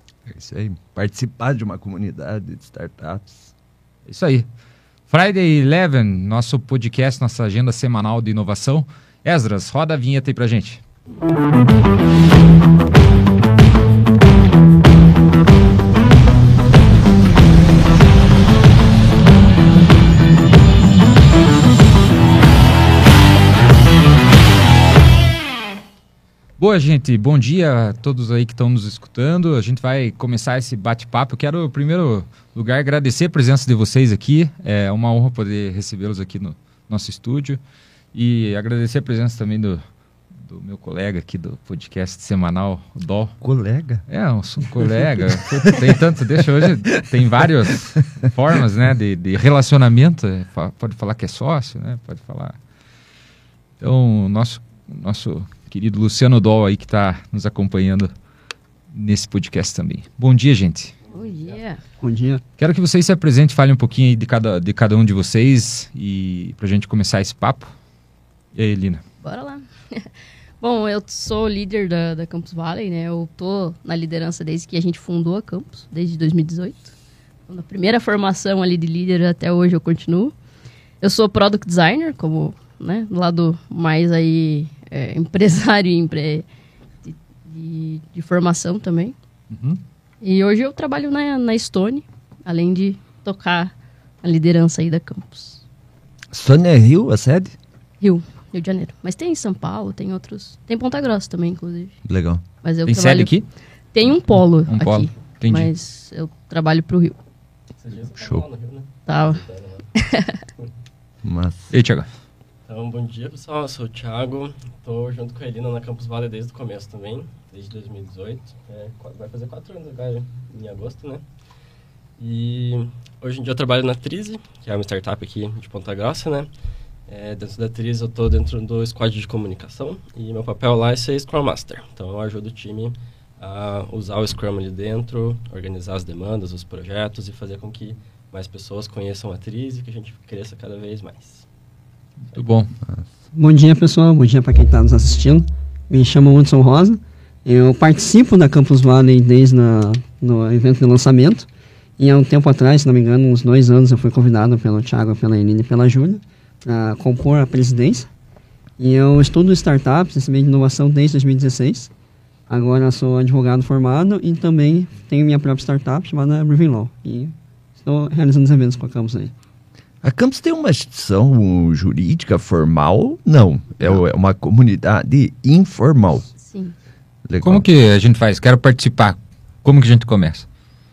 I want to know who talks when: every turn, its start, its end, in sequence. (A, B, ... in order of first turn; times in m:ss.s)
0:00.2-0:03.5 A
0:04.0-0:04.4 B
0:05.1-0:10.8 B
0:26.6-0:37.6 B
0:38.1-0:39.8 B
0:40.4-0:43.4 B
0:43.4-0:44.0 A
0:44.1-0:52.6 B
0:44.8-0:45.9 A
0:46.6-0:47.0 A
0:53.8-0:58.1 B
0:58.9-1:00.9 B
1:01.1-1:01.8 C
1:02.0-1:02.4 D
1:02.6-1:07.7 B
1:08.6-1:09.0 B
1:09.2-1:16.9 C
1:17.5-1:20.3 C
1:21.0-1:26.4 C
1:27.0-1:29.1 C
1:29.5-1:29.8 B
1:30.2-1:35.6 C
1:36.3-1:37.6 A
1:38.0-1:42.0 C
1:42.0-1:42.4 A
1:42.6-1:43.3 C
1:42.8-1:43.4 B
1:43.9-1:47.2 C
1:44.6-1:45.7 B
1:47.8-1:49.8 E
1:48.2-1:48.4 A
1:49.1-1:49.4 C
1:49.9-1:50.4 C
1:51.2-1:51.7 A
1:51.7-1:52.1 B
1:52.7-2:01.2 E
2:02.2-2:06.5 E
2:07.1-2:21.4 E
2:22.3-2:22.7 B
2:23.3-2:31.5 D
2:32.0-2:38.1 D
2:38.8-2:41.9 D
2:42.5-2:49.3 D
2:50.0-2:56.3 A
2:56.4-2:56.7 C
2:57.2-2:57.7 A
2:57.4-3:00.5 B